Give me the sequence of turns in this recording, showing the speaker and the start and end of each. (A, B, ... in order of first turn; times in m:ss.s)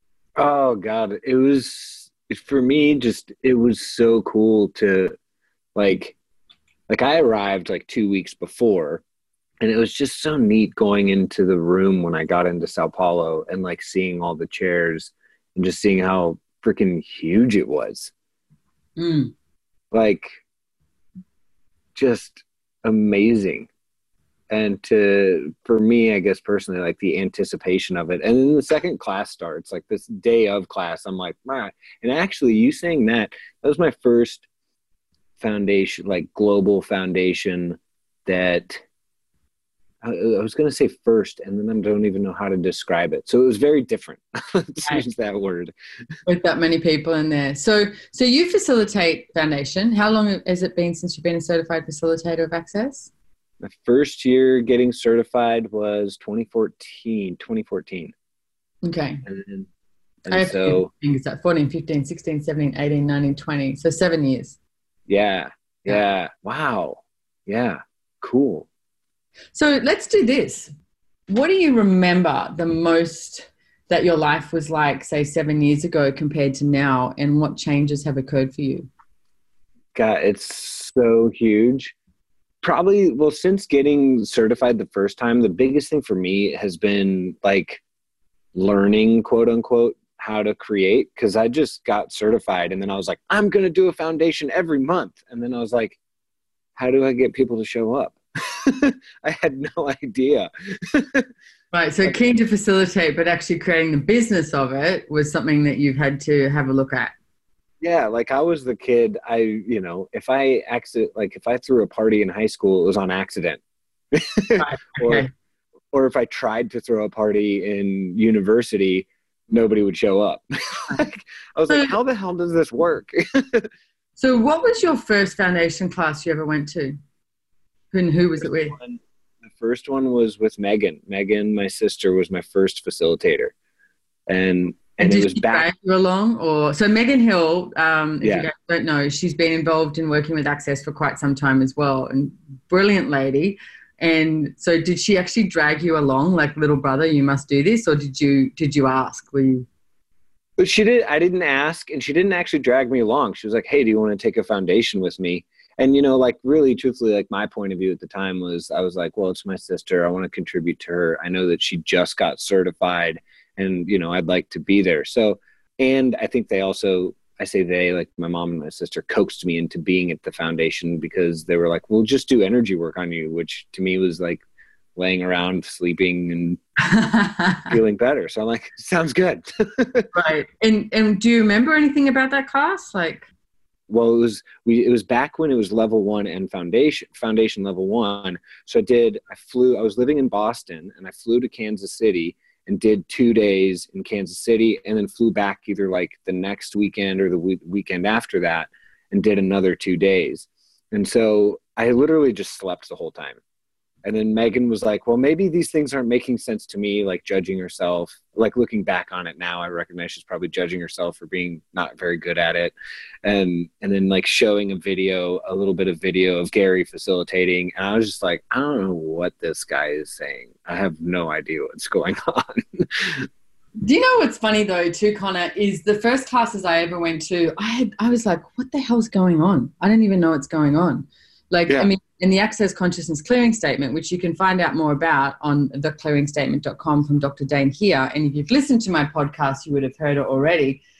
0:00.4-0:05.1 A
0:05.8-0:06.2 A
0:06.9-0:09.0 A
0:09.6-0:18.1 A
0:19.0-0:19.3 B
0:19.9-0:20.3 A
0:22.0-0:23.7 A
0:24.5-0:34.5 A
0:35.4-0:38.8 A
0:40.0-0:45.7 A
0:46.3-0:53.1 B
0:53.6-0:58.2 A
0:58.8-0:59.2 B
0:59.2-0:59.7 A
1:00.2-1:00.9 A
1:00.3-1:04.6 B
1:05.1-1:08.7 A
1:09.5-1:10.7 B
1:11.3-1:18.9 B
1:20.0-1:22.0 A
1:22.6-1:27.8 A
1:28.5-1:36.0 A
1:36.8-1:41.3 A
1:41.7-1:47.1 B
1:47.8-1:53.6 A
1:54.1-1:55.3 A
1:54.6-1:55.3 B
1:55.9-2:03.7 A
2:04.2-2:07.0 B
2:07.9-2:08.8 B
2:08.4-2:13.5 A
2:14.3-2:15.7 A
2:15.0-2:29.7 B
2:18.2-2:18.5 A
2:30.6-2:54.4 A
2:55.0-2:56.6 A
2:56.8-2:57.7 B
2:57.7-3:00.1 A
3:00.1-3:03.3 B
3:03.9-3:23.4 A
3:24.0-3:43.3 A
3:43.8-4:00.8 B